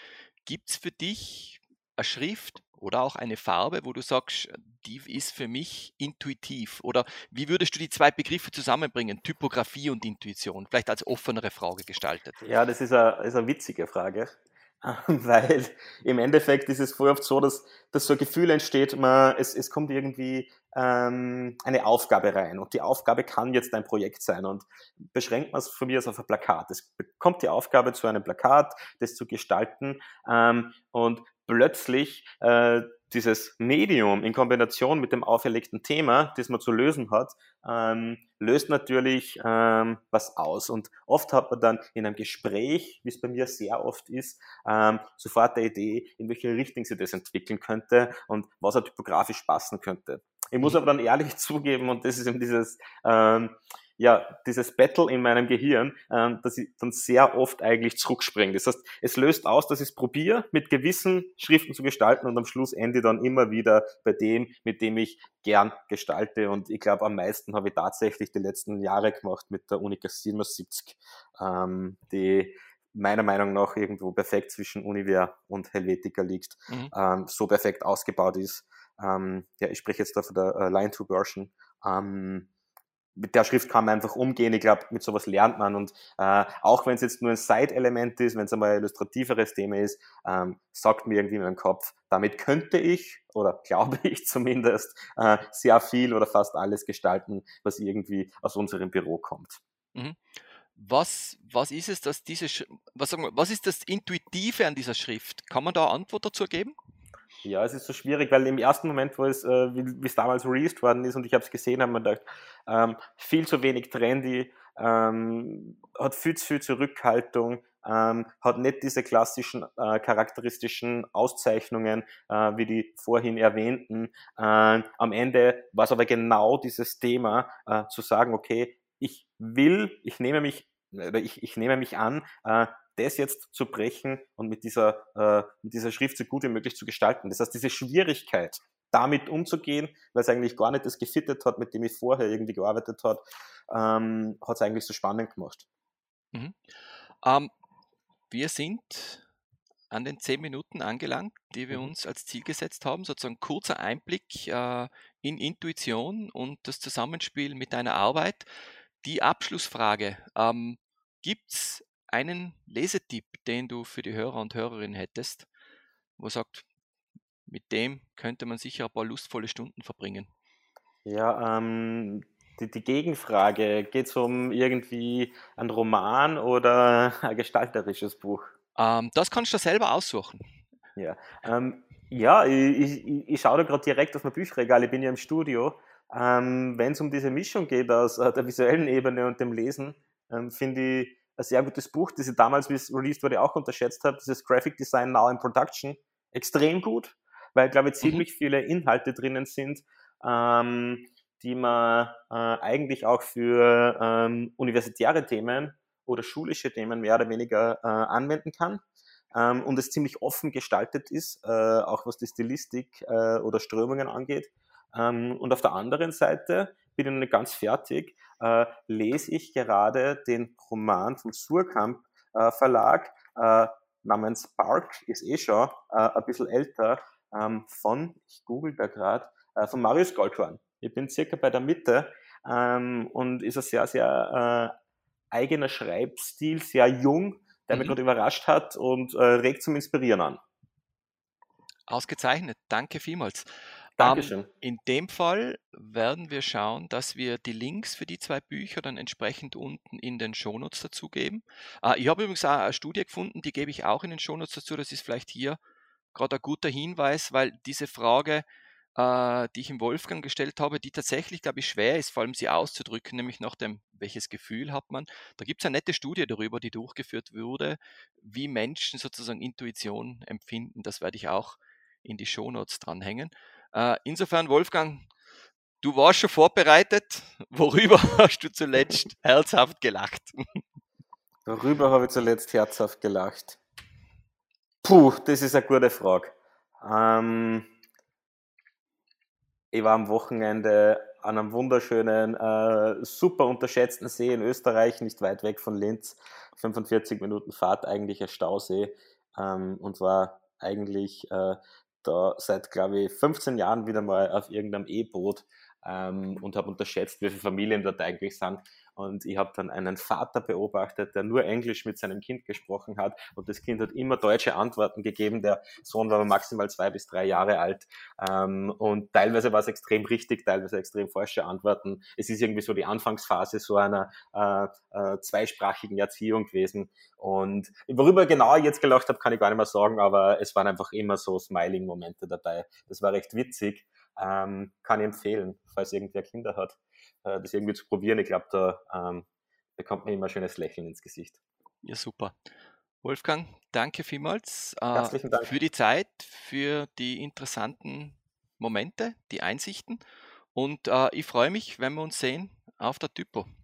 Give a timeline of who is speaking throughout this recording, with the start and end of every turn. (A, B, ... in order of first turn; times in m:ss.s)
0:00.4-0:12.4 A
0:12.4-1:22.5 B
1:23.2-1:39.6 B
1:40.0-1:40.2 A
1:40.8-1:46.8 A
1:47.4-2:25.7 B
2:26.3-2:26.6 A
2:27.2-2:27.5 A
2:28.3-2:29.2 A
2:29.9-2:38.5 A
2:39.0-2:45.5 A
2:46.2-2:46.7 A
2:47.5-2:50.3 A
2:51.0-2:58.5 B
2:58.8-3:00.4 A
3:01.0-3:28.8 B
3:29.3-3:54.7 B
3:55.3-4:00.4 B
4:01.9-4:03.5 A
4:04.0-4:04.5 B
4:04.0-4:15.6 A
4:16.1-4:18.4 A
4:19.0-4:35.1 A
4:35.8-4:40.4 A
4:41.5-4:43.6 B
4:44.8-4:47.7 B
4:49.7-5:39.3 B
5:39.8-5:41.4 B
5:41.8-5:42.4 A
5:43.0-5:50.0 A
5:44.9-5:45.6 B
5:50.5-5:53.5 A